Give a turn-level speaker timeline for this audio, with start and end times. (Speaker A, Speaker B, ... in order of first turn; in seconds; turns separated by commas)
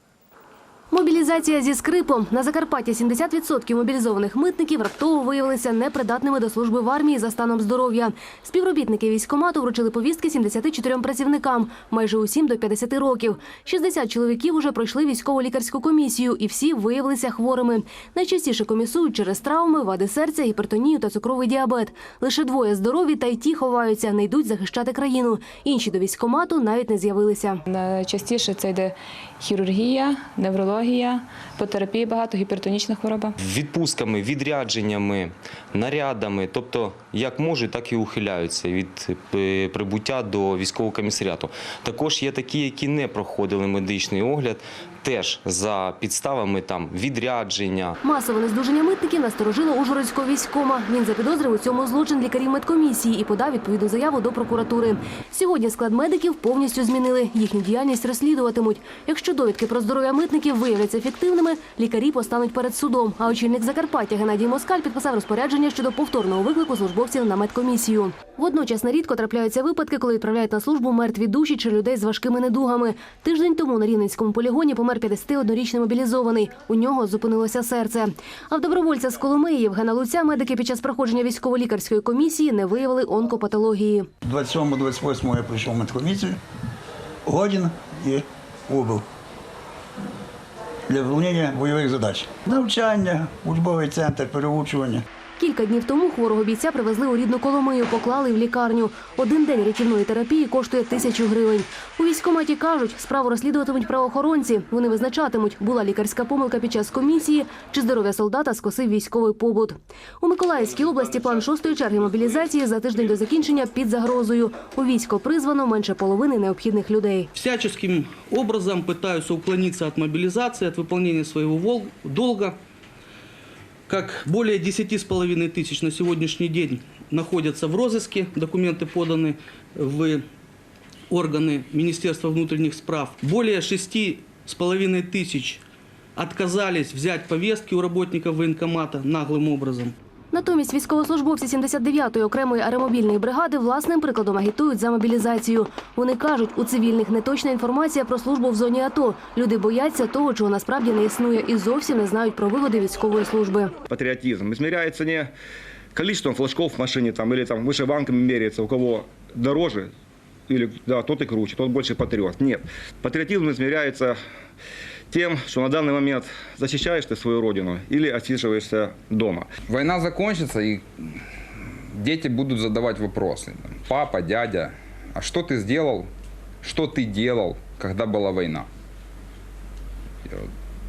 Speaker A: 0.9-27.6, Speaker B: 27.7-33.4, Speaker C: 33.4-48.0, Speaker A: 48.0-84.1, Speaker D: 84.2-86.4, Speaker D: 87.3-89.0, Speaker D: 90.9-95.0, Speaker A: 95.4-117.3, Speaker E: 117.4-122.6, Speaker E: 123.9-130.2, Speaker E: 131.1-135.6, Speaker E: 136.2-139.9, Speaker A: 140.3-153.7, Speaker F: 153.9-155.3, Speaker F: 155.9-159.9, Speaker F: 160.5-164.2, Speaker F: 165.1-169.5, Speaker G: 169.7-171.2, Speaker G: 171.9-176.1, Speaker G: 176.6-178.7